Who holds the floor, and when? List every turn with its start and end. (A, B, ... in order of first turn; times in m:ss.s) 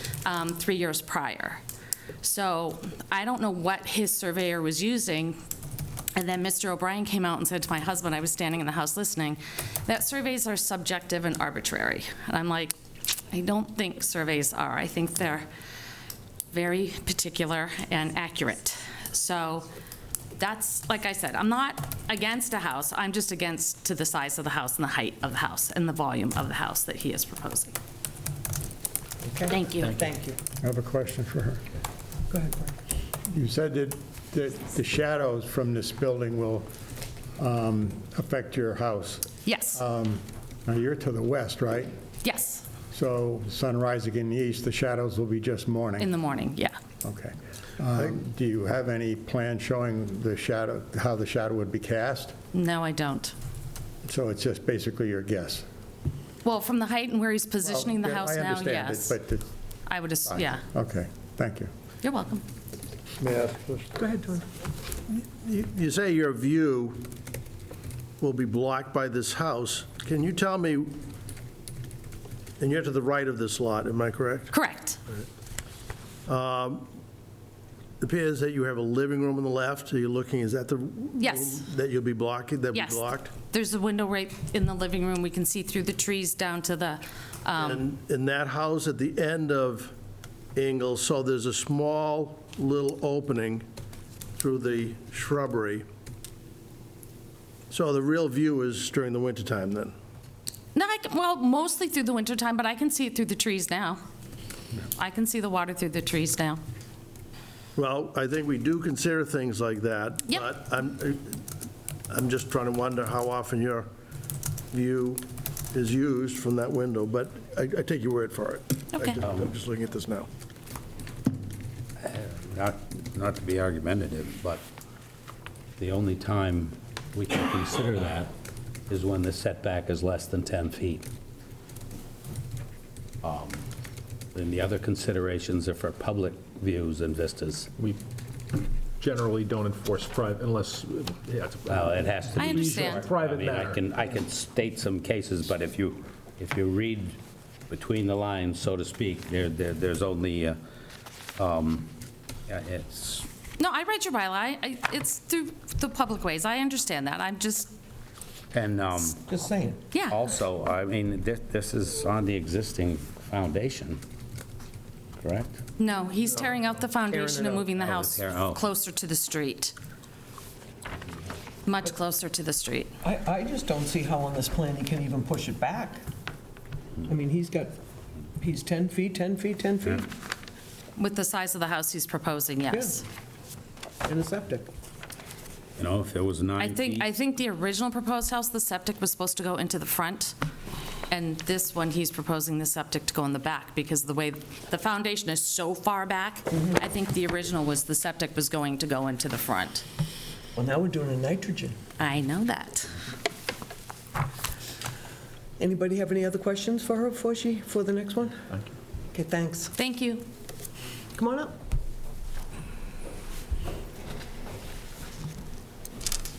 0:00.2-0:01.6 A
0:02.2-0:05.4 A
0:06.2-0:12.8 A
0:13.3-0:15.5 A
0:16.5-0:19.7 A
0:20.4-0:27.8 A
0:29.2-0:30.4 B
0:29.5-0:29.9 A
0:29.8-0:30.1 C
0:30.6-0:31.6 D
0:32.3-0:32.7 B
0:33.3-0:36.7 D
0:37.4-0:41.9 D
0:39.4-0:39.8 A
0:42.2-0:42.6 A
0:42.9-0:46.1 D
0:46.0-0:46.8 A
0:47.0-0:52.3 D
0:52.5-0:53.3 A
0:54.0-0:55.6 D
0:56.4-0:59.2 A
0:57.6-0:59.5 D
0:59.9-1:00.6 A
1:00.2-1:01.7 D
1:02.0-1:02.4 A
1:03.2-1:03.5 E
1:05.1-1:07.0 E
1:08.2-1:11.0 E
1:12.6-1:14.5 E
1:14.5-1:15.0 A
1:16.2-1:16.9 E
1:18.0-1:23.3 E
1:21.2-1:21.6 A
1:22.7-1:27.8 A
1:27.6-1:29.9 E
1:30.5-1:33.6 E
1:34.4-1:35.8 E
1:37.7-1:39.9 E
1:40.7-1:44.0 A
1:44.9-1:46.6 A
1:47.8-1:51.4 E
1:52.1-1:53.9 E
1:54.7-2:00.3 E
1:58.9-1:59.2 A
2:02.0-2:04.6 F
2:05.8-2:08.3 F
2:08.9-2:11.0 F
2:13.2-2:13.7 F
2:14.3-2:17.7 F
2:19.0-2:23.8 C
2:21.6-2:27.2 F
2:22.4-2:23.1 A
2:27.7-2:30.6 F
2:31.4-2:31.9 F
2:32.5-2:33.3 F
2:33.6-2:37.7 A
2:38.5-2:39.2 F
2:39.2-2:39.8 B
2:39.9-2:40.2 A
2:40.1-2:44.0 F
2:45.2-2:45.6 F
2:45.8-2:49.7 A
2:47.1-2:47.7 B
2:47.8-2:48.6 F
2:51.6-2:52.9 A
2:53.0-2:56.0 B
2:57.0-2:57.8 B
2:58.4-3:00.1 B
3:01.0-3:03.0 A
3:02.7-3:03.0 B
3:04.0-3:04.7 B
3:05.8-3:07.1 F
3:06.6-3:10.3 A
3:11.1-3:19.8 A
3:20.5-3:21.8 B
3:22.0-3:23.0 A
3:25.6-3:28.6 B
3:29.1-3:29.7 B
3:29.8-3:30.3 A
3:31.1-3:31.5 B